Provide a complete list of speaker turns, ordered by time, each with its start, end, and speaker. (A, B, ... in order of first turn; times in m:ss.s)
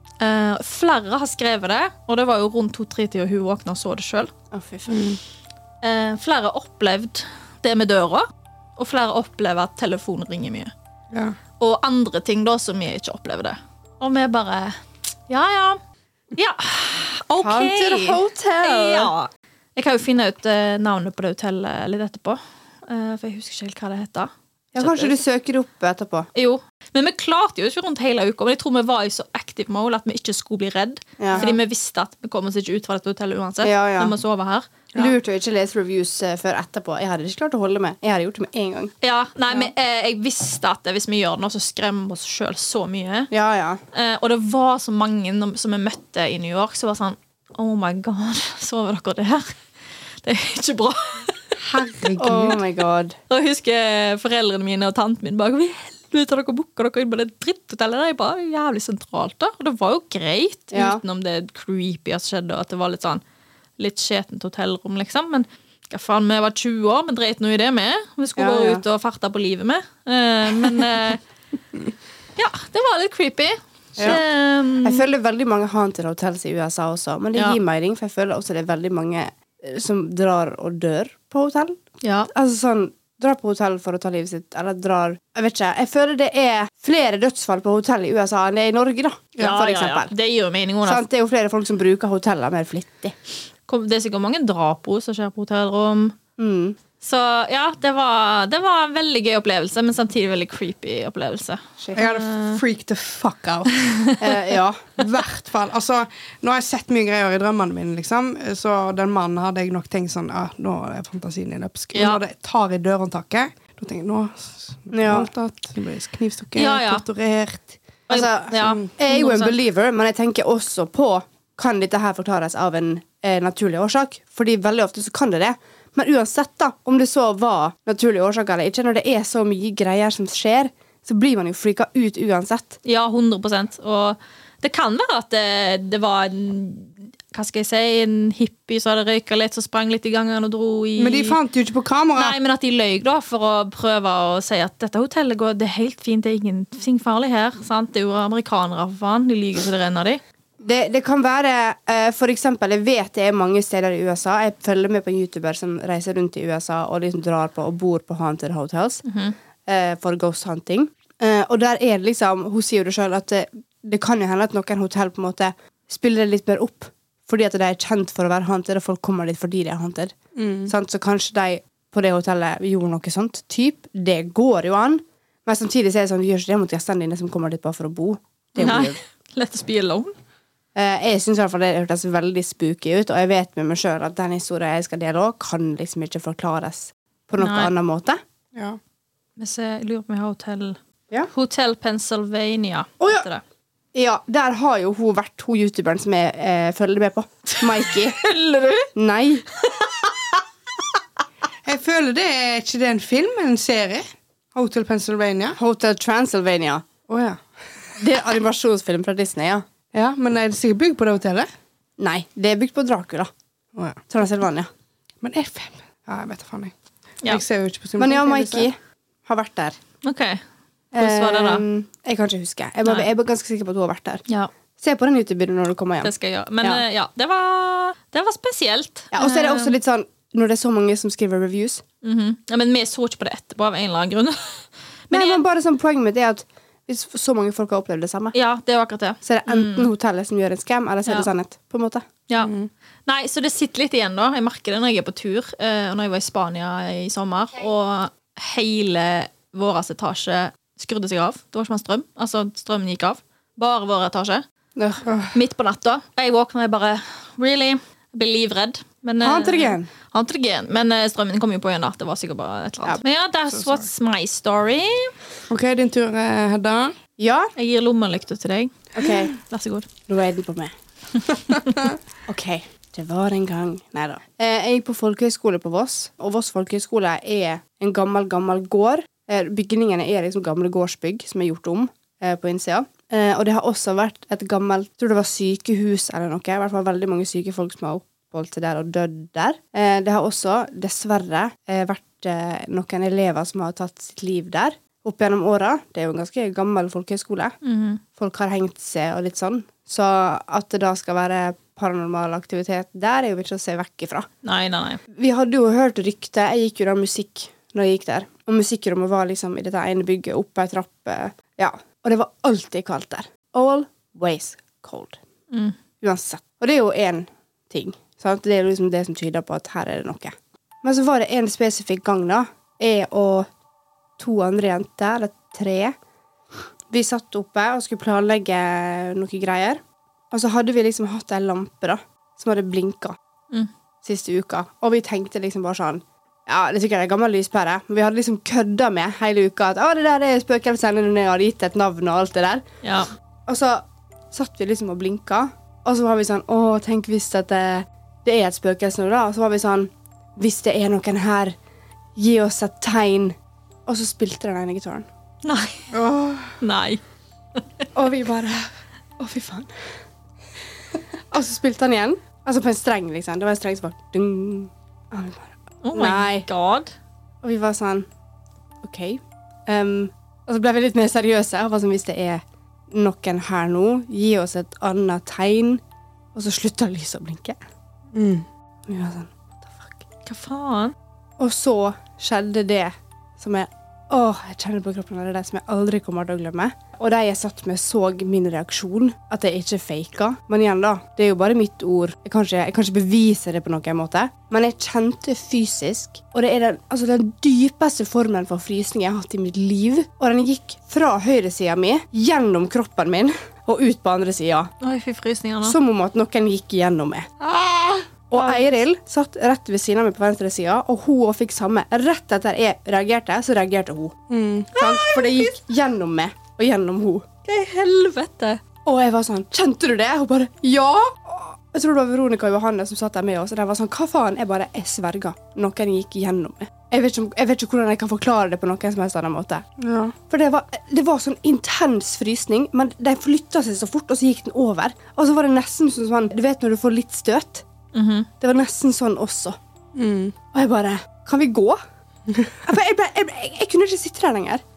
0:00.2-0:04.3 A
0:04.5-0:05.0 B
0:04.9-0:05.2 C
0:05.8-0:10.7 A
0:11.6-0:14.8 A
0:15.3-0:15.8 A
0:16.4-0:25.2 A
0:17.4-0:19.1 B
0:24.8-0:26.3 B
0:26.4-0:34.7 A
0:31.2-0:31.5 B
0:33.6-0:34.1 B
0:35.0-0:39.0 B
0:39.0-0:43.3 A
0:43.3-0:43.8 B
0:43.9-0:49.6 A
0:50.2-0:51.9 A
0:51.6-0:52.6 C
0:52.2-0:53.2 B
0:53.3-1:03.2 A
1:00.7-1:01.0 B
1:03.8-1:11.2 A
1:08.4-1:08.8 B
1:12.4-1:15.1 A
1:14.8-1:21.8 B
1:22.0-1:22.3 A
1:22.3-1:30.1 B
1:29.4-1:31.0 A
1:30.8-1:33.1 B
1:33.7-1:36.2 A
1:36.4-1:36.8 B
1:37.0-1:42.6 A
1:42.0-1:44.1 C
1:43.7-1:44.4 A
1:44.2-1:44.8 B
1:45.0-1:57.8 C
1:51.9-1:52.2 A
1:54.9-1:55.3 B
1:56.6-1:57.0 A
1:58.1-1:59.6 A
1:58.1-2:12.8 B
1:58.6-1:58.9 C
2:12.8-2:21.4 A
2:21.0-2:22.4 C
2:22.2-2:30.2 A
2:30.6-2:39.0 B
2:39.0-2:39.4 A
2:39.7-2:50.2 B
2:50.4-2:50.7 C
2:50.7-2:59.0 B
2:58.6-3:00.1 A
3:00.8-3:08.2 B
3:07.4-3:07.7 A
3:08.5-3:08.8 C
3:09.4-3:10.8 A
3:11.3-3:13.4 A
3:13.0-3:13.3 B
3:13.9-3:18.2 B
3:17.6-3:18.9 A
3:19.0-3:19.5 B
3:21.6-3:25.6 C
3:25.6-3:26.8 B
3:27.1-3:27.4 C
3:28.0-3:29.6 B
3:29.9-3:31.5 C
3:32.0-3:33.3 B
3:33.8-3:34.0 C
3:34.1-3:34.7 B
3:35.2-3:36.7 C
3:37.3-3:38.7 C
3:38.0-3:39.8 B
3:40.0-3:40.4 A
3:40.9-3:44.2 B
3:41.0-3:41.6 A
3:44.8-3:46.1 B
3:46.0-3:49.8 A
3:49.1-3:51.8 B
3:52.0-3:55.4 A
3:55.1-3:58.4 B
3:58.3-3:59.9 A
3:59.2-4:02.0 B
4:02.4-4:02.7 C
4:03.1-4:14.4 A
4:14.8-4:15.0 B
4:15.1-4:15.4 C
4:15.3-4:25.1 A
4:19.2-4:19.9 B
4:23.5-4:23.9 C
4:25.5-4:27.0 C
4:27.2-4:27.5 B
4:27.6-4:29.9 A
4:29.0-4:29.3 B
4:30.1-4:30.7 B
4:31.5-4:31.8 A
4:32.3-4:57.6 B
4:57.6-4:58.0 A
4:58.2-5:04.3 B
5:04.4-5:05.0 A
5:05.1-5:15.2 B
5:16.0-5:23.5 B
5:24.2-5:26.0 B
5:26.9-5:29.8 B
5:30.3-5:33.2 B
5:34.0-5:42.6 B
5:42.8-5:43.1 A
5:43.5-5:51.6 B
5:52.2-5:53.4 B
5:53.9-5:55.1 B
5:55.4-5:55.9 A
5:55.9-5:56.6 C
5:56.6-5:57.0 A
5:57.6-5:57.9 A
5:58.0-5:58.7 B
5:59.2-5:59.7 B
6:01.3-6:06.5 B
6:05.8-6:06.9 A
6:07.4-6:08.1 B
6:08.8-6:15.8 B
6:16.4-6:17.6 B
6:18.1-6:18.5 C
6:18.9-6:20.0 B
6:20.3-6:21.0 A
6:21.4-6:44.7 B
6:44.8-6:45.8 A
6:45.6-6:47.3 B
6:47.5-6:48.7 C
6:48.3-6:54.2 B
6:54.3-6:55.0 C
6:54.8-6:55.5 A
6:54.8-6:57.3 B
6:57.5-6:58.6 A
6:58.8-7:09.6 B
7:09.8-7:10.2 C
7:10.3-7:17.6 B
7:17.9-7:18.3 A
7:18.4-7:19.6 B
7:20.0-7:20.4 C
7:20.5-7:21.8 B
7:22.3-7:22.5 C
7:22.7-7:24.6 B